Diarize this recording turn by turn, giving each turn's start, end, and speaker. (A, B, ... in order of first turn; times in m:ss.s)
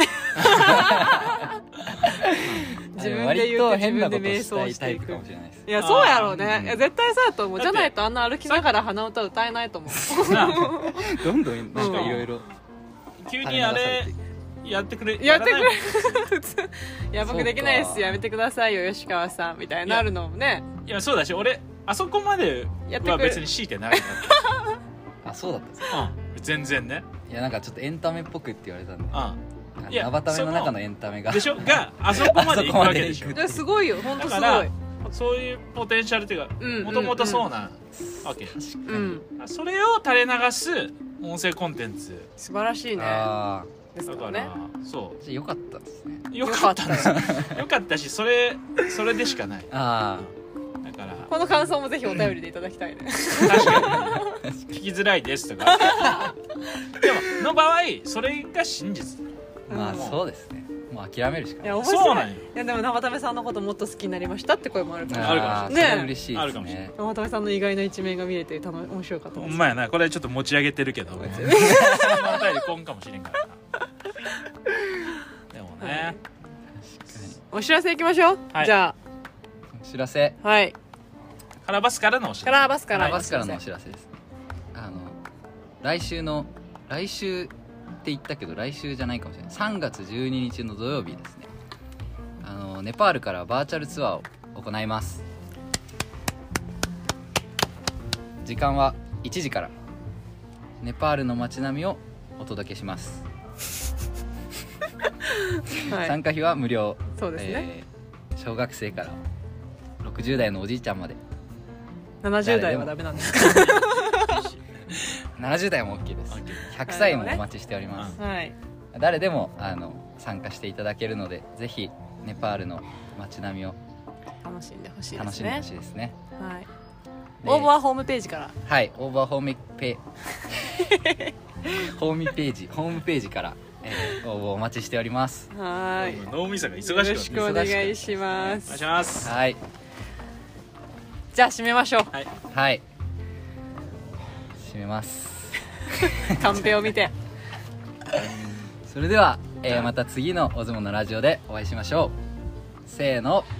0:00.2-0:01.5 A
0:00.4-0:00.8 B
0:00.5-0:05.7 C
0:02.4-0:02.7 B
0:02.9-0:11.1 A
0:05.8-0:06.4 B
0:06.4-0:06.8 C
0:07.6-0:07.9 B
0:08.4-0:08.7 B
0:10.1-0:10.8 B
0:10.2-0:12.4 C
0:11.7-0:12.2 A
0:11.7-0:12.3 B
0:13.2-0:14.1 B
0:13.4-0:14.2 C
0:14.6-0:16.3 B
0:15.2-0:20.6 A
0:17.2-0:18.2 C
0:20.8-0:24.4 B
0:22.9-0:24.8 A
0:25.2-0:26.0 C
0:25.9-0:27.0 B
0:27.3-0:29.2 C
0:29.1-0:33.4 B
0:29.8-0:33.7 C
0:33.3-0:34.7 A
0:34.0-0:38.6 B
0:36.6-0:37.4 A
0:38.0-0:39.2 C
0:38.8-0:39.2 A
0:39.4-0:42.3 B
0:42.4-0:43.3 A
0:43.0-0:43.7 C
0:43.9-0:44.5 A
0:44.0-0:45.2 B
0:45.2-0:46.3 C
0:46.3-0:50.3 B
0:46.3-0:47.2 A
0:47.1-0:47.6 C
0:49.7-0:50.3 C
0:50.8-0:51.3 B
0:51.3-0:54.4 A
0:53.4-0:56.3 B
0:53.6-0:54.5 C
0:55.6-0:57.0 A
0:57.0-1:00.2 B
0:59.7-1:00.1 A
0:59.7-1:01.8 C
1:01.6-1:06.2 A
1:01.8-1:02.5 B
1:05.0-1:06.8 B
1:05.0-1:06.9 C
1:07.0-1:09.7 A
1:09.4-1:13.6 B
1:11.2-1:12.4 C
1:11.4-1:12.4 A
1:15.5-1:16.2 B
1:15.8-1:16.2 A
1:16.8-1:17.4 C
1:17.5-1:19.0 A
1:19.7-1:20.4 C
1:20.4-1:20.8 A
1:21.6-1:22.7 B
1:22.4-1:23.6 A
1:22.9-1:24.1 C
1:24.7-1:25.2 C
1:25.8-1:31.5 C
1:32.4-1:35.2 C
1:38.4-1:39.7 C
1:40.8-1:43.2 C
1:45.4-1:46.2 A
1:45.8-1:49.2 C
1:47.2-1:47.7 A
1:50.0-1:51.2 C
1:52.2-1:54.3 A
1:52.4-1:53.2 C
1:53.3-1:55.0 B
1:55.4-1:58.2 C
1:56.3-1:56.7 B
1:56.8-1:57.4 A
1:58.2-1:58.5 A
1:58.9-2:03.8 C
2:04.4-2:05.6 A
2:05.1-2:06.2 C
2:06.4-2:06.7 A
2:07.4-2:07.7 C
2:07.4-2:08.5 A
2:08.6-2:10.0 C
2:10.7-2:11.3 A
2:11.6-2:15.5 C
2:15.5-2:16.3 A
2:16.0-2:17.8 B
2:16.8-2:18.8 A
2:17.3-2:18.6 C
2:18.6-2:19.3 B
2:19.2-2:19.6 C
2:21.3-2:22.1 A
2:22.5-2:22.8 C
2:24.6-2:25.6 C
2:26.0-2:27.1 A
2:26.4-2:26.7 C
2:28.1-2:28.6 B
2:28.9-2:32.1 C
2:32.8-2:33.5 C